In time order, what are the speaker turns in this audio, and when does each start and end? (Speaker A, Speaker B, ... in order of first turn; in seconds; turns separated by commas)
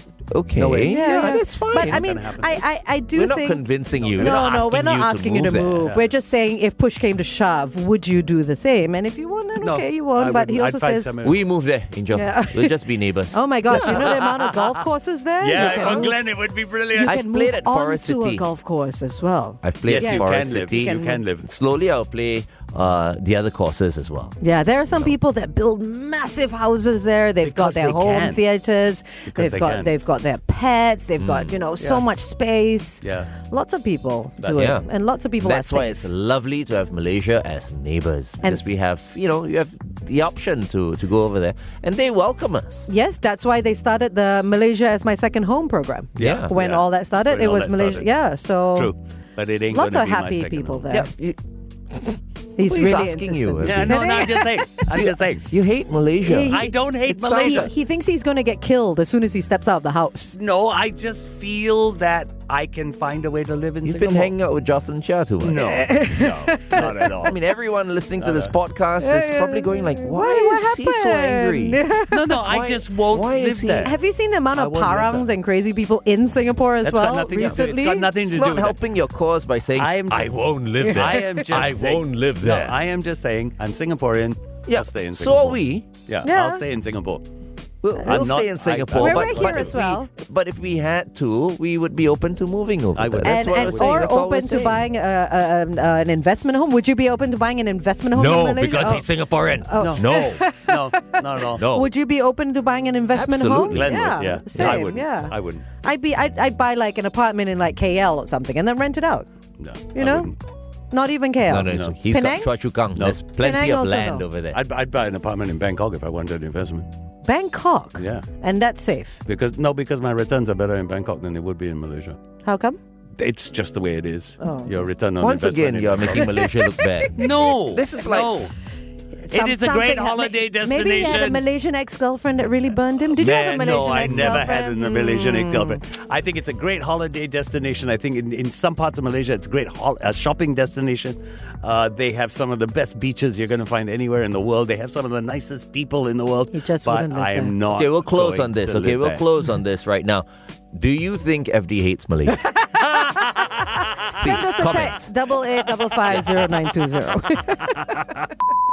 Speaker A: 0.3-2.1, Speaker B: 0.6-2.8, Speaker C: 0.9-3.6, Speaker A: 3.1-5.9, Speaker B: 4.0-4.7, Speaker C: 4.2-11.2, Speaker B: 5.8-6.1, Speaker B: 9.6-11.4, Speaker A: 11.2-14.3, Speaker C: 12.1-16.2, Speaker B: 13.7-14.8, Speaker B: 15.4-17.2, Speaker A: 15.5-16.1, Speaker C: 16.9-21.2, Speaker A: 17.0-18.4, Speaker A: 19.6-25.1, Speaker B: 19.8-21.4, Speaker C: 24.4-36.0, Speaker B: 27.4-28.4, Speaker B: 29.2-29.9, Speaker A: 31.2-31.6, Speaker B: 31.8-32.0, Speaker B: 33.0-33.3, Speaker A: 34.5-34.9, Speaker A: 35.4-42.9, Speaker C: 42.9-48.9, Speaker A: 46.2-46.5, Speaker B: 46.2-48.1, Speaker B: 48.7-50.9, Speaker C: 49.7-51.1, Speaker A: 50.9-51.4, Speaker C: 52.5-54.9, Speaker A: 52.6-54.1, Speaker B: 53.6-55.5, Speaker A: 54.9-57.7, Speaker C: 56.2-56.7, Speaker B: 56.4-57.7, Speaker C: 57.3-60.4, Speaker B: 60.3-64.3, Speaker A: 63.8-65.7, Speaker B: 65.4-67.4, Speaker C: 65.5-67.1, Speaker A: 66.7-71.8, Speaker B: 68.2-68.5, Speaker C: 69.0-72.4, Speaker B: 72.1-73.9, Speaker A: 72.4-73.9, Speaker C: 73.8-78.1, Speaker B: 74.5-75.3, Speaker B: 76.8-78.8, Speaker A: 77.3-82.8, Speaker B: 79.8-87.2, Speaker C: 80.8-81.6, Speaker A: 84.7-85.9, Speaker C: 86.2-86.6, Speaker A: 87.8-94.8, Speaker B: 88.0-89.8, Speaker C: 89.0-90.1, Speaker B: 93.0-94.0, Speaker C: 93.2-99.1, Speaker A: 98.1-100.4, Speaker C: 99.6-109.3, Speaker B: 99.8-100.1, Speaker B: 100.6-101.6, Speaker A: 101.5-101.9, Speaker A: 103.1-104.9, Speaker B: 103.7-105.6, Speaker B: 109.6-110.3, Speaker C: 109.9-110.3, Speaker C: 110.9-112.5, Speaker A: 111.5-114.6, Speaker B: 111.7-112.0, Speaker B: 112.9-113.2, Speaker C: 113.4-114.3, Speaker B: 114.5-116.9, Speaker C: 117.2-119.2, Speaker B: 118.0-118.2, Speaker B: 119.2-122.2, Speaker C: 122.4-122.8, Speaker B: 123.2-126.3, Speaker C: 124.4-124.8, Speaker A: 125.2-128.5, Speaker C: 126.1-127.1, Speaker B: 127.2-128.5, Speaker C: 129.2-135.8, Speaker B: 129.3-131.4, Speaker B: 133.1-149.2, Speaker A: 134.0-134.5, Speaker C: 146.5-147.5, Speaker A: 147.7-152.4, Speaker C: 152.4-153.1, Speaker B: 152.8-154.9, Speaker C: 154.1-157.8, Speaker A: 154.2-155.0, Speaker B: 156.0-156.6, Speaker B: 157.7-158.1